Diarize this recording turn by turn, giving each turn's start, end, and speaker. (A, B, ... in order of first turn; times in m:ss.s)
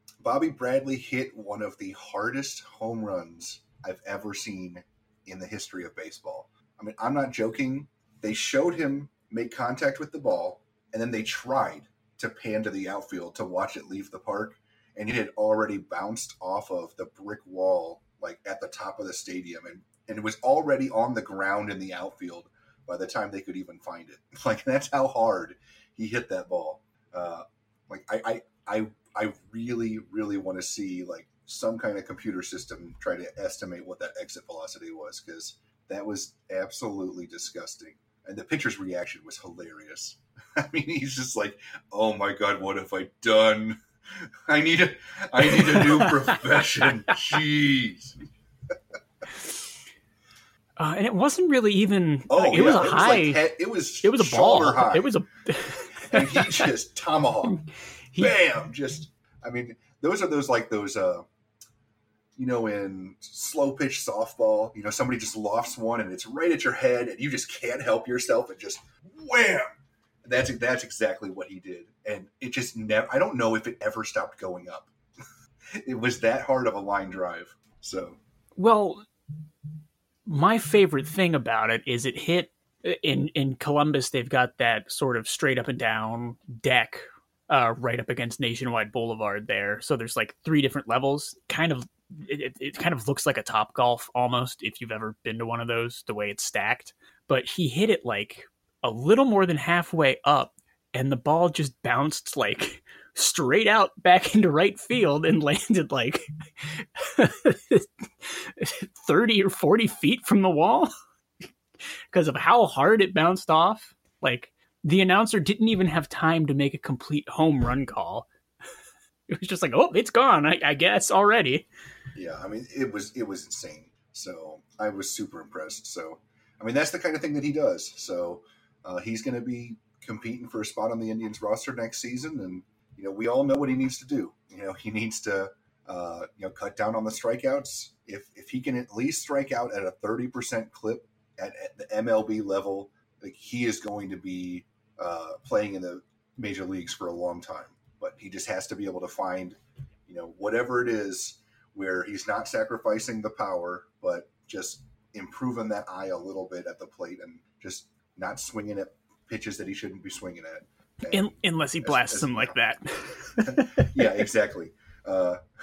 0:00.2-0:48.2 A
0:45.6-0:46.1 B
0:50.8-0:53.4 B
0:52.3-0:55.1 A
0:54.0-0:56.7 B
0:56.0-0:57.6 A
0:57.4-0:58.4 B
0:58.2-1:01.2 A
1:02.4-1:14.9 A
1:15.7-1:18.2 A
1:18.6-1:19.0 B
1:20.2-1:50.9 B
1:52.1-1:58.3 B
1:59.3-2:01.7 B
2:02.1-2:42.6 A
2:41.1-2:44.2 B
2:43.4-2:45.4 A